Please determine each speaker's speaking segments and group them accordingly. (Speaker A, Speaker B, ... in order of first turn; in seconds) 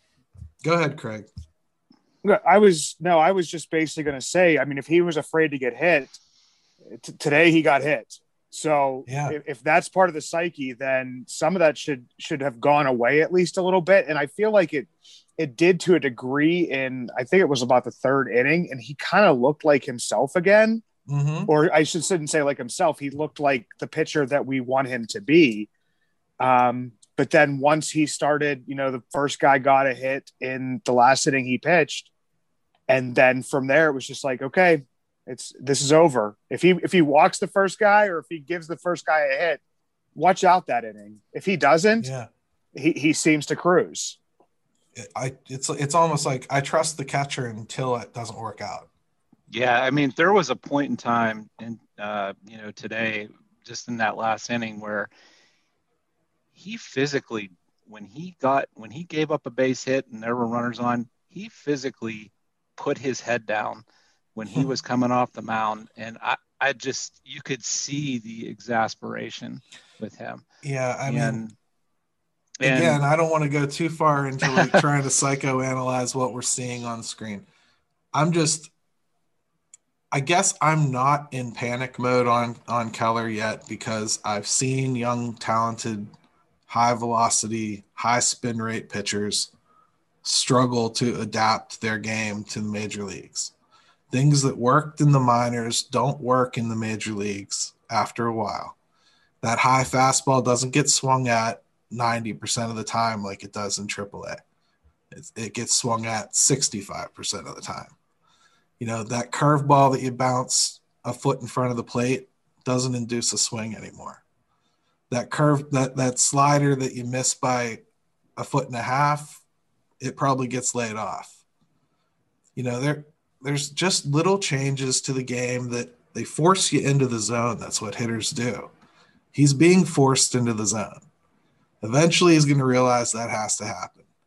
Speaker A: 0.6-1.3, 9.1-9.4, 21.1-21.5, 42.0-42.3, 44.9-48.9, 70.6-71.4, 72.6-77.5, 78.1-78.7, 80.1-86.1, 86.7-89.5, 90.2-93.5, 94.1-98.8, 99.4-104.4, 105.1-107.9, 108.8-114.2, 115.1-117.8, 118.3-119.4, 120.0-121.4, 122.5-128.7, 129.3-131.0, 131.8-134.0
Speaker B: 2.2-6.2, 6.9-20.8, 21.5-25.7, 26.4-32.1, 32.9-39.6, 40.1-42.1, 42.7-44.2
Speaker C: 49.5-55.1, 56.5-70.4, 71.0-71.5, 72.6-73.0